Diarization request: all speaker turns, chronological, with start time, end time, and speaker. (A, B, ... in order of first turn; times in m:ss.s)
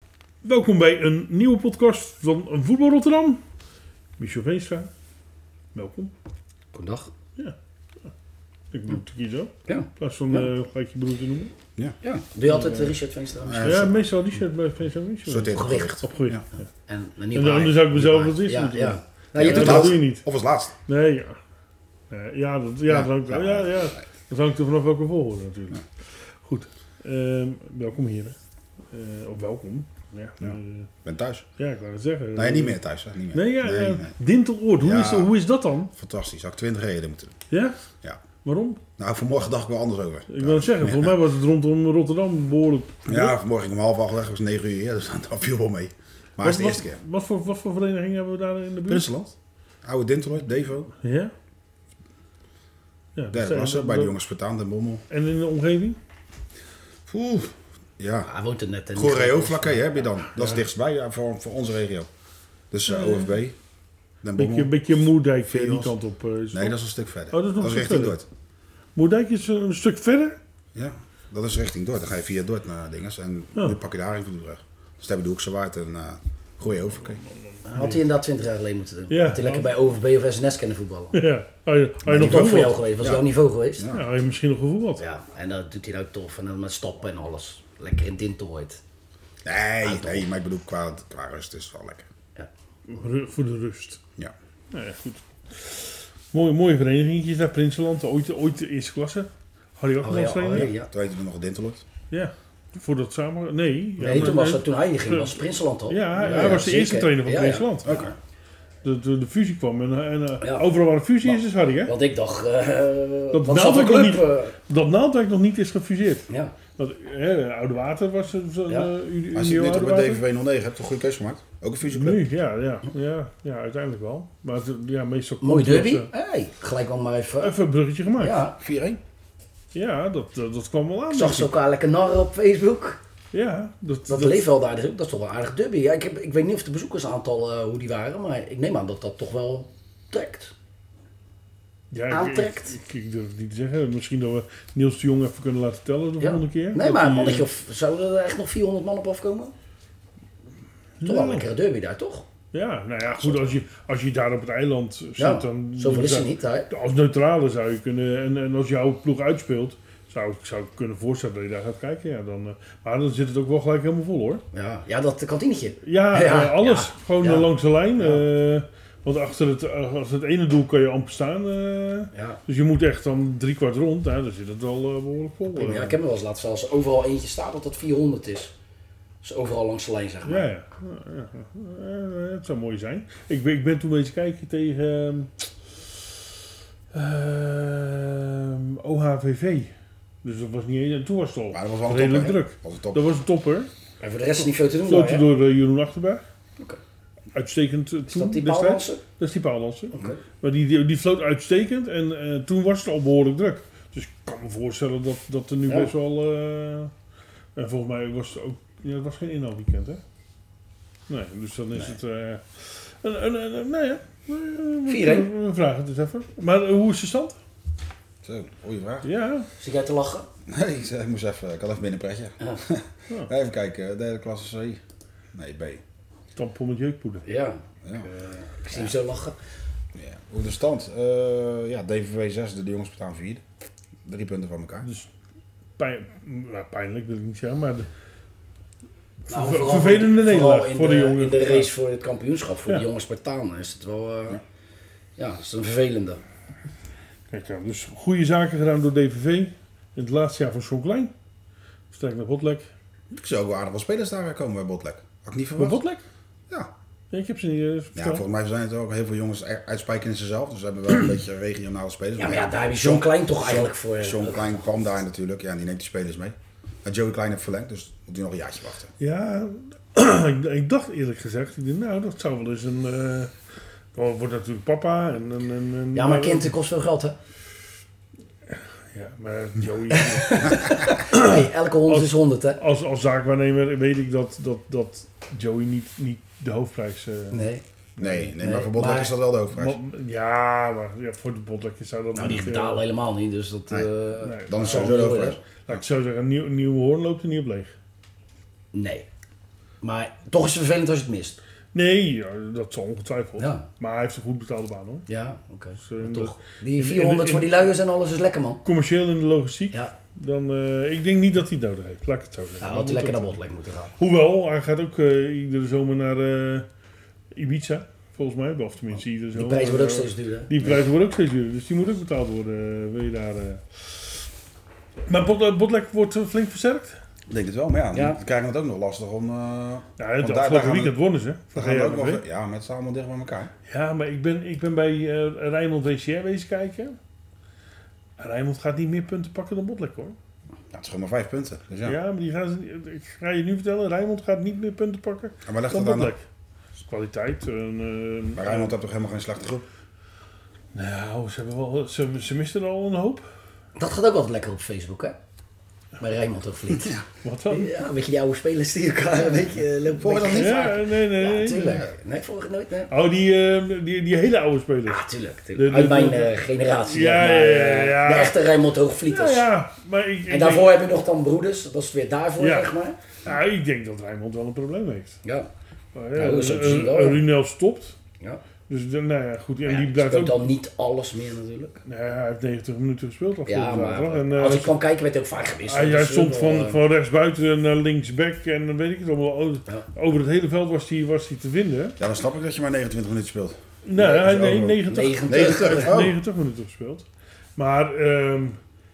0:00.4-0:03.4 A
0:04.2-0:04.9 A
0:05.7-0:06.1 A
0:06.7-0:07.1 B
0:08.7-0:11.5 A
0:09.7-0:10.5 B
0:12.0-0:14.0 B
0:12.5-0:13.0 A
0:13.4-0:14.0 C
0:13.6-0:16.5 A
0:15.2-0:16.4 C
0:15.5-0:16.0 B
0:16.9-0:20.0 B
0:17.3-0:20.2 A
0:19.4-0:20.7 C
0:20.9-0:21.4 A
0:22.1-0:25.9 A
0:22.9-0:24.0 C
0:26.4-0:28.4 A
0:28.9-0:30.9 A
0:30.4-0:31.5 C
0:31.6-0:32.8 A
0:32.4-0:34.1 C
0:33.3-0:35.9 A
0:34.8-0:35.3 C
0:36.0-0:37.4 C
0:37.5-0:37.8 A
0:38.4-0:38.8 A
0:39.0-0:41.2 C
0:40.3-0:43.4 A
0:43.1-0:47.0 C
0:46.4-0:49.1 A
0:48.9-0:49.3 C
0:49.8-0:50.9 C
0:51.0-0:51.3 A
0:53.2-0:54.1 A
0:53.3-0:55.0 C
0:55.1-0:56.0 A
0:57.1-0:58.3 C
0:58.2-0:59.9 B
0:58.9-1:02.1 C
1:02.7-1:03.6 C
1:02.9-1:03.3 A
1:04.2-1:04.8 C
1:04.4-1:06.8 A
1:05.5-1:05.9 C
1:06.5-1:08.2 C
1:07.3-1:08.2 A
1:08.9-1:10.4 A
1:10.7-1:17.2 C
1:17.6-1:21.2 B
1:17.7-1:18.0 A
1:19.1-1:19.7 A
1:21.1-1:22.8 A
1:22.0-1:23.9 B
1:23.0-1:23.2 C
1:23.8-1:24.0 C
1:23.9-1:25.0 A
1:25.0-1:28.8 B
1:29.4-1:32.1 C
1:29.8-1:30.3 B
1:32.9-1:34.0 A
1:34.7-1:40.7 A
1:40.0-1:40.9 B
1:40.9-1:41.8 C
1:42.1-1:48.0 A
1:44.0-1:48.0 B
1:44.0-1:44.3 C
1:47.8-1:48.1 C
1:48.8-1:51.9 A
1:50.4-1:50.7 B
1:51.2-1:54.6 B
1:53.3-2:00.2 A
1:56.3-1:56.6 B
1:59.3-2:02.2 C
2:01.9-2:06.1 A
2:05.4-2:07.6 B
2:07.4-2:08.4 A
2:08.2-2:08.6 B
2:08.6-2:09.0 C
2:09.7-2:11.5 A
2:11.1-2:13.0 B
2:13.3-2:14.5 A
2:14.1-2:20.5 B
2:21.9-2:27.5 A
2:22.1-2:22.8 B
2:26.2-2:29.5 B
2:31.0-2:31.5 A
2:31.0-2:32.3 B
2:32.5-2:44.4 A
2:35.2-2:36.7 B
2:44.5-2:48.2 B
2:45.8-2:56.0 A
2:52.1-2:52.4 B
2:55.5-2:58.5 B
2:59.2-3:00.5 B
3:00.2-3:06.0 A
3:06.9-3:09.7 A
3:10.2-3:13.7 A
3:11.5-3:13.0 C
3:14.0-3:15.2 B
3:14.8-3:16.2 A
3:17.3-3:26.9 A
3:18.1-3:19.0 B
3:19.9-3:20.2 B
3:25.7-3:25.9 B
3:27.6-3:30.0 A
3:31.1-3:37.4 A
3:34.9-3:35.3 B
3:38.2-3:39.1 C
3:39.0-3:39.5 A
3:39.6-3:40.3 B
3:40.5-3:44.8 C
3:45.3-3:45.8 C
3:46.3-3:47.2 A
3:47.2-3:49.4 B
3:47.8-3:48.1 C
3:49.9-3:53.4 C
3:54.0-3:54.9 C
3:54.8-3:55.1 A
3:55.8-3:57.9 A
3:59.3-4:01.7 A
3:59.3-4:04.4 B
4:05.2-4:06.2 B
4:07.3-4:11.1 A
4:11.9-4:12.7 A
4:13.2-4:15.8 C
4:15.5-4:16.0 A
4:17.1-4:18.2 A
4:18.0-4:28.9 C
4:22.2-4:24.6 B
4:29.0-4:33.3 A
4:33.9-4:36.5 A
4:35.9-4:37.2 B
4:38.9-4:48.3 A
4:39.9-4:42.6 B
4:47.3-4:47.6 B
4:48.0-4:49.8 C
4:48.4-4:49.1 B
4:49.5-4:52.8 A
4:52.2-4:55.4 B
4:54.2-4:57.7 A
4:54.5-4:55.8 C
4:58.7-4:59.1 B
4:59.8-5:01.4 B
5:01.7-5:05.1 A
5:03.4-5:03.6 B
5:05.1-5:08.6 B
5:05.8-5:07.5 A
5:08.6-5:13.4 A
5:12.6-5:13.9 B
5:14.0-5:16.7 A
5:17.3-5:24.2 A
5:19.3-5:20.5 B
5:25.1-5:27.0 A
5:27.3-5:31.0 C
5:27.9-5:28.2 B
5:30.0-5:32.2 A
5:31.6-5:33.5 C
5:33.7-5:37.0 A
5:38.2-5:40.2 A
5:40.7-5:42.0 C
5:41.8-5:46.3 A
5:45.4-5:46.1 C
5:46.8-5:48.7 A
5:48.4-5:49.7 C
5:50.7-5:53.3 A
5:53.8-5:55.2 B
5:56.0-6:02.9 B
5:57.2-5:57.8 A
6:00.0-6:00.7 C
6:00.3-6:01.9 A
6:02.9-6:05.0 A
6:04.9-6:09.5 B
6:05.6-6:08.5 A
6:09.1-6:10.8 A
6:10.3-6:13.0 B
6:12.4-6:15.2 A
6:15.2-6:15.5 B
6:16.0-6:18.0 A
6:16.2-6:17.2 B
6:18.7-6:20.5 A
6:19.6-6:21.8 B
6:21.9-6:24.7 A
6:23.5-6:26.8 B
6:25.7-6:32.0 A
6:32.0-6:36.2 C
6:33.8-6:37.0 A
6:34.0-6:36.0 B
6:37.6-6:38.6 A